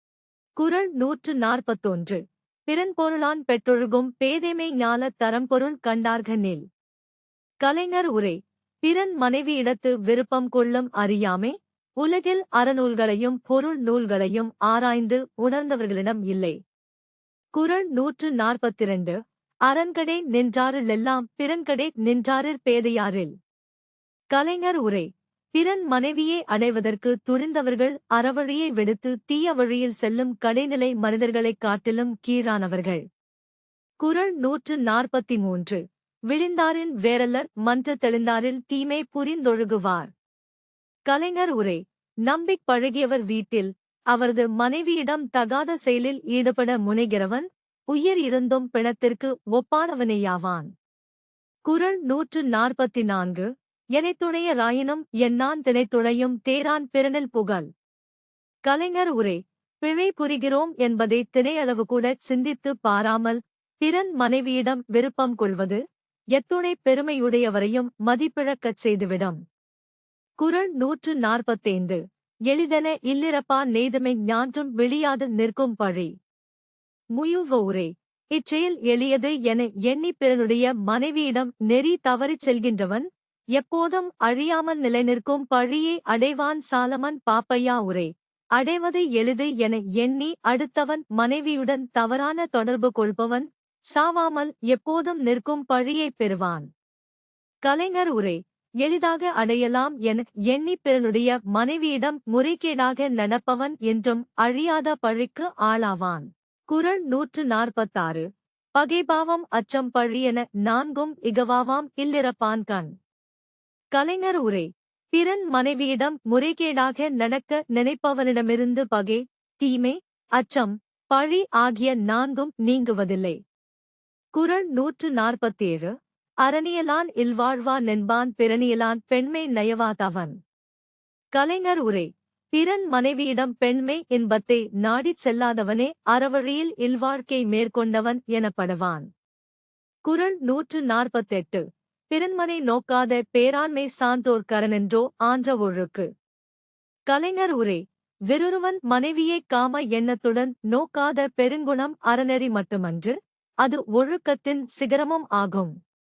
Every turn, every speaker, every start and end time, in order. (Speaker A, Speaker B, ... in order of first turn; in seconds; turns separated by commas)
Speaker A: 0.6-6.6, Speaker A: 7.6-16.6, Speaker A: 17.5-23.3, Speaker A: 24.3-33.0, Speaker A: 34.0-40.1, Speaker A: 41.1-50.7, Speaker A: 51.7-57.7, Speaker A: 58.7-65.8, Speaker A: 66.3-69.4, Speaker A: 70.4-76.1, Speaker A: 77.1-96.7, Speaker A: 97.6-112.9, Speaker A: 113.9-123.4, Speaker A: 124.3-130.3, Speaker A: 131.3-139.1, Speaker A: 140.1-146.1, Speaker A: 147.1-155.7